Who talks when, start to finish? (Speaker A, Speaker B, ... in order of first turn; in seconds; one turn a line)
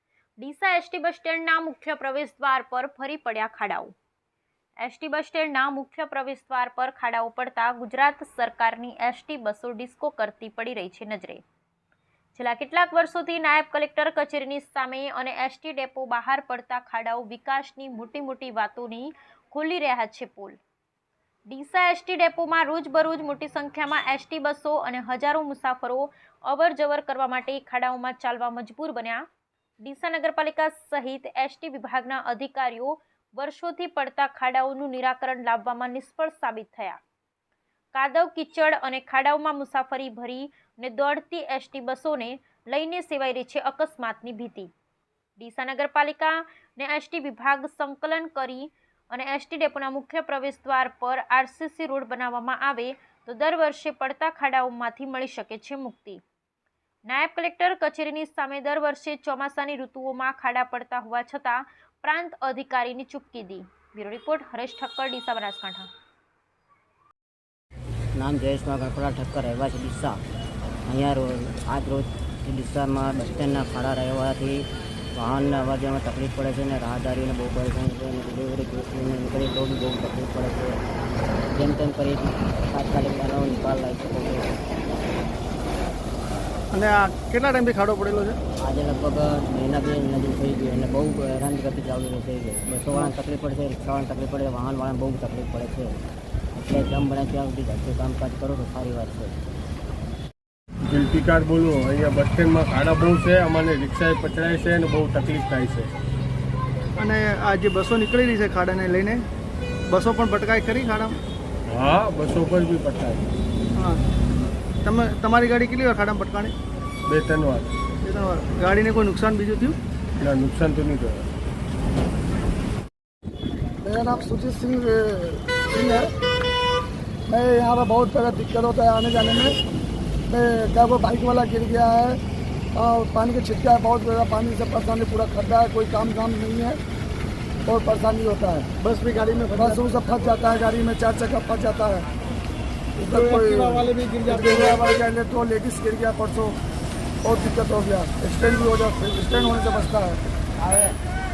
Speaker A: 0.4-3.9
Speaker A: 4.8-11.4
Speaker A: 12.3-20.6
Speaker A: 21.5-29.2
Speaker A: 29.8-37.0
Speaker A: 37.9-44.7
Speaker A: 45.4-56.2
Speaker A: 57.1-65.9
Speaker B: 68.1-70.2
Speaker B: 70.8-80.8
Speaker B: 81.5-84.6
Speaker C: 86.7-88.4
Speaker B: 88.6-96.0
Speaker B: 96.5-99.4
Speaker D: 100.9-105.9
Speaker C: 107.0-109.2
Speaker C: 109.9-111.2
Speaker D: 111.7-113.2
Speaker C: 114.8-116.5
Speaker D: 117.1-117.7
Speaker C: 118.0-119.8
Speaker D: 120.2-121.2
Speaker E: 123.8-126.1
Speaker E: 127.3-129.6
Speaker E: 130.3-132.2
Speaker E: 132.7-136.8
Speaker E: 137.7-138.7
Speaker C: 138.8-139.8
Speaker E: 139.5-142.1
Speaker E: 143.0-146.6
Speaker C: 143.0-144.8
Speaker E: 147.2-150.2